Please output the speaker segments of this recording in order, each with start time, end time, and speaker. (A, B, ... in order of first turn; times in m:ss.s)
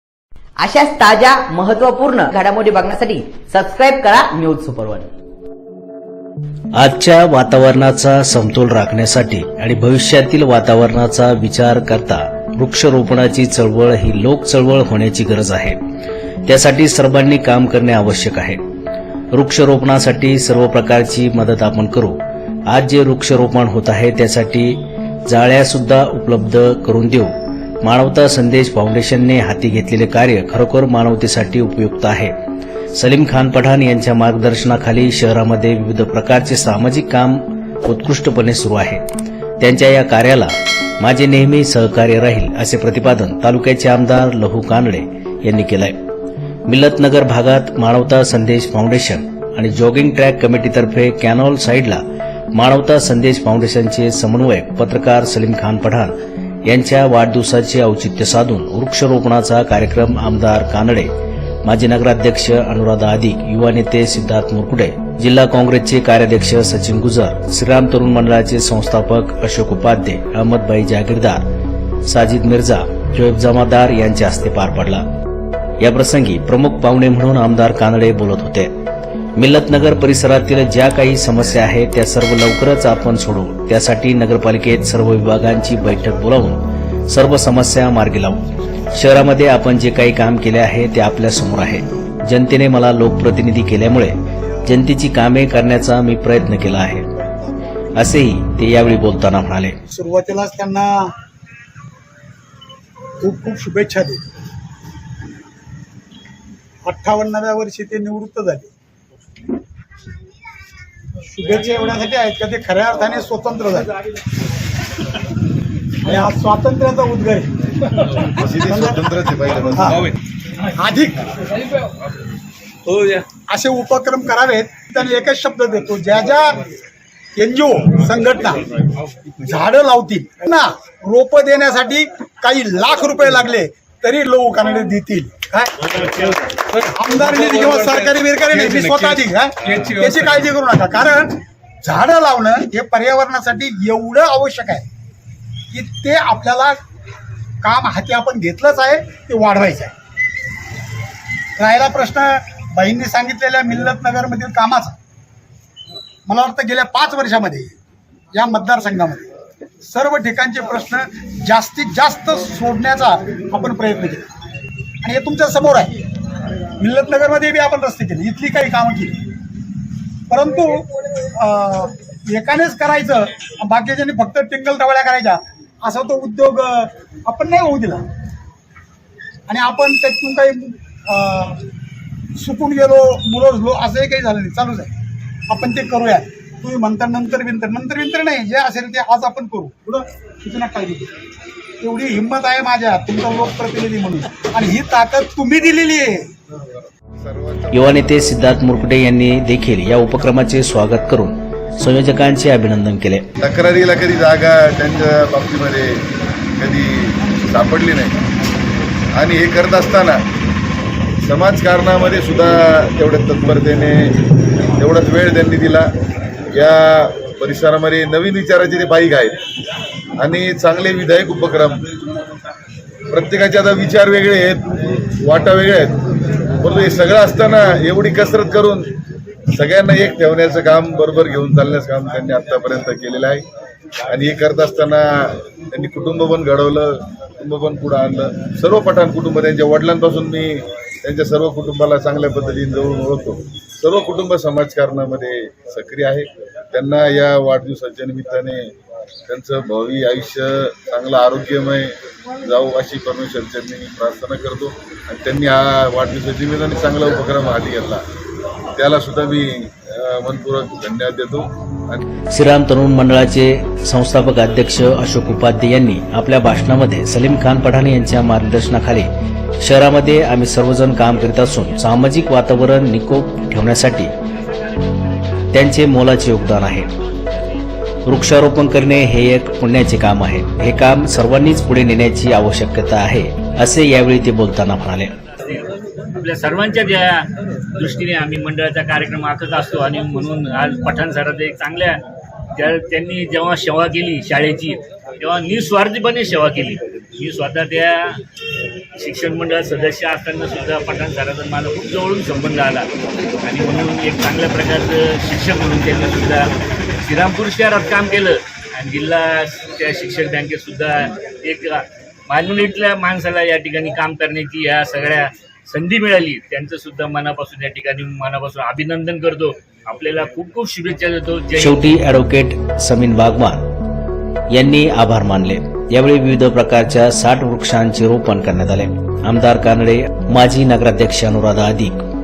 0:00.6-0:05.1 A
0:06.7-0:15.8 B
0:16.4-0:18.6 B
0:19.3-0:27.3 B
0:27.8-0:32.3 B
0:32.9-0:39.0 B
0:39.6-0:45.9 B
0:46.7-0:52.0 B
0:52.5-0:56.1 B
0:56.7-1:01.1 B
1:01.6-1:11.4 B
1:12.0-1:15.0 B
1:15.8-1:18.7 B
1:19.4-1:37.1 B
1:37.1-1:37.8 C
1:38.0-1:39.8 B
1:39.9-1:41.1 C
1:43.2-1:44.2 C
1:46.8-1:48.7 C
1:51.2-1:53.9 C
1:56.0-1:58.0 C
1:58.4-2:00.0 D
1:58.6-2:00.2 C
2:00.7-2:01.4 C
2:03.5-2:06.6 C
2:07.4-2:08.7 C
2:09.4-2:16.2 C
2:16.8-2:24.8 C
2:25.7-2:26.8 C
2:27.6-2:29.9 C
2:31.6-2:34.9 C
2:36.3-2:37.7 C
2:38.3-2:39.3 C
2:39.8-2:44.3 C
2:45.0-2:45.9 C
2:46.8-2:49.2 C
2:50.3-2:58.0 C
2:59.5-3:01.6 C
3:02.4-3:04.9 C
3:05.5-3:11.1 C
3:11.8-3:16.3 C
3:17.2-3:18.9 D
3:17.7-3:23.3 B
3:23.4-3:26.0 D
3:26.6-3:28.2 D
3:29.1-3:30.2 D
3:31.2-3:34.2 D
3:34.7-3:35.9 D
3:36.5-3:39.4 D
3:40.2-3:41.9 D
3:43.1-3:46.0 D
3:46.6-3:48.9 D
3:49.5-3:53.4 D
3:54.1-4:08.7 D
4:09.3-4:18.0 D
4:18.7-4:22.0 D
4:22.3-4:29.1 B
4:29.6-4:34.1 B
4:35.5-4:36.9 B
4:38.0-4:45.2 B
4:45.4-4:52.0 E
4:52.5-4:58.2 E
4:59.0-5:02.9 E
5:03.4-5:21.9 E
5:21.6-5:23.6 B
5:24.5-5:32.0 B